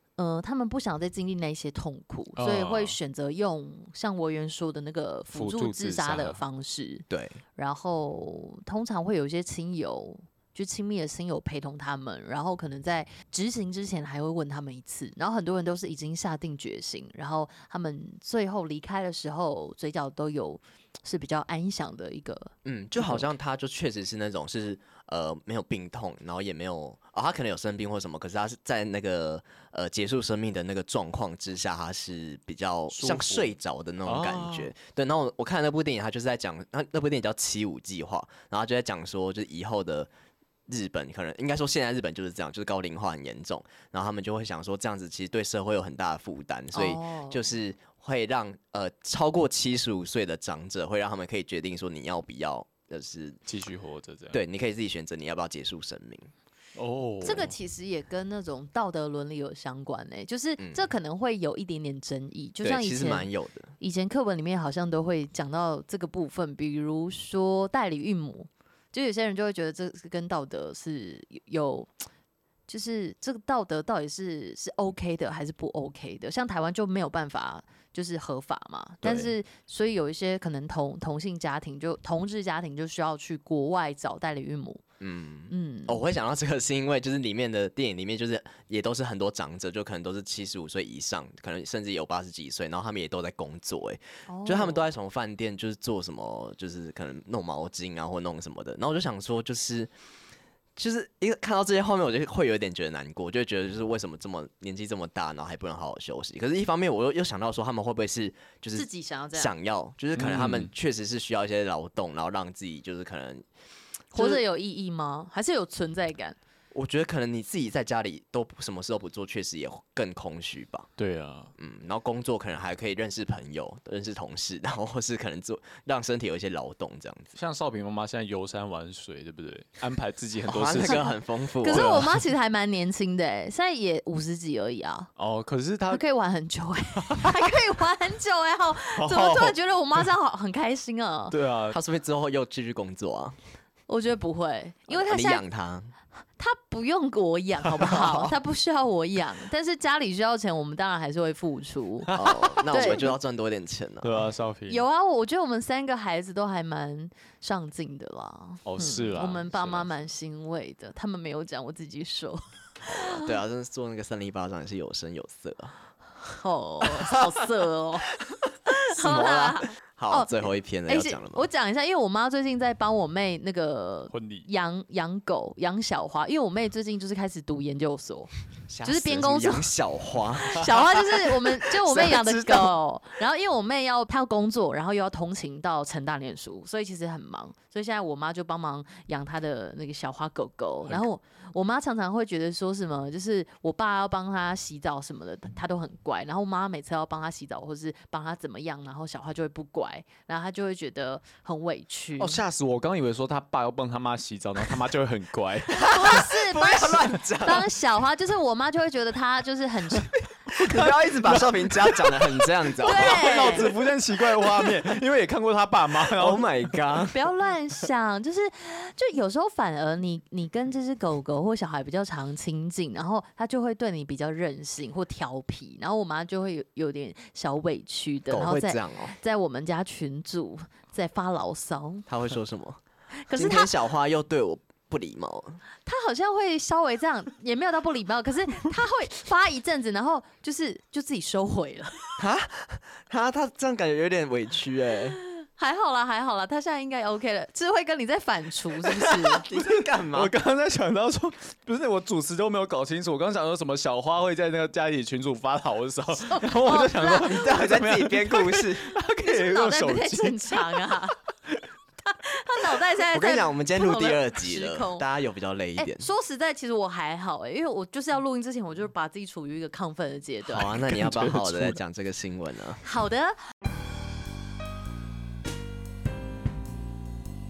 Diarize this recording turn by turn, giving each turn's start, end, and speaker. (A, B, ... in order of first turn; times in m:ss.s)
0:00.2-0:07.0 A
0:02.4-0:03.0 B
0:05.3-0:06.4 B
0:07.1-0:07.4 C
0:07.6-0:22.5 A
0:22.6-0:40.1 C
0:32.9-0:33.5 B
0:34.1-0:34.7 B
0:40.7-0:53.4 C
0:46.7-0:47.5 A
0:53.5-0:54.4 B
0:54.3-0:56.3 C
0:56.8-0:57.5 B
0:57.2-1:03.3 A
1:00.6-1:00.9 C
1:02.6-1:03.7 C
1:03.8-1:11.9 A
1:12.7-1:24.8 A
1:19.0-1:19.4 C
1:25.0-1:39.9 C
1:25.5-1:26.0 A
1:34.3-1:34.8 A
1:40.8-1:53.5 C
1:48.8-1:49.5 A
1:50.2-1:50.7 B
1:54.1-1:54.4 C
1:54.1-1:56.4 A
1:56.7-2:00.9 C
2:01.0-2:01.5 B
2:01.6-2:07.3 C
2:07.4-2:11.1 B
2:10.5-2:12.0 C
2:11.6-2:15.1 A
2:11.6-2:12.2 B
2:15.2-2:16.0 B
2:15.9-2:21.4 A
2:17.1-2:17.3 B
2:18.9-2:19.6 B
2:21.3-2:21.8 B
2:21.7-2:23.4 C
2:23.9-2:25.4 A
2:24.9-2:25.9 C
2:26.4-2:32.1 A
2:27.8-2:28.3 C
2:32.1-2:33.0 B
2:32.1-2:34.3 C
2:32.7-2:33.1 A
2:34.0-2:34.8 B
2:34.7-2:43.4 A
2:38.6-2:39.9 B
2:42.9-2:45.8 C
2:46.2-2:48.1 A
2:48.7-2:58.3 A
2:48.9-2:51.5 C
2:54.1-2:54.5 B
2:58.7-3:02.8 C
2:58.8-2:59.7 A
3:00.4-3:22.4 A
3:22.2-3:25.8 B
3:25.7-3:27.7 C
3:25.8-3:30.1 A
3:30.5-3:33.9 C
3:30.5-3:36.8 B
3:32.8-3:33.7 A
3:36.1-3:37.2 C
3:37.1-3:52.1 A
3:48.3-3:49.2 C
3:52.1-3:52.8 C
3:53.2-3:53.7 A
3:53.3-3:55.6 C
3:55.8-4:02.0 A
4:02.2-4:05.2 C
4:05.3-4:09.4 A
4:09.2-4:10.3 C
4:10.1-4:21.0 B
4:16.2-4:17.5 A
4:17.0-4:19.0 C
4:19.1-4:21.2 A
4:22.1-4:25.0 A
4:23.1-4:26.1 C
4:25.8-4:30.8 A
4:30.4-4:32.8 C
4:30.9-4:31.8 B
4:32.8-4:33.4 A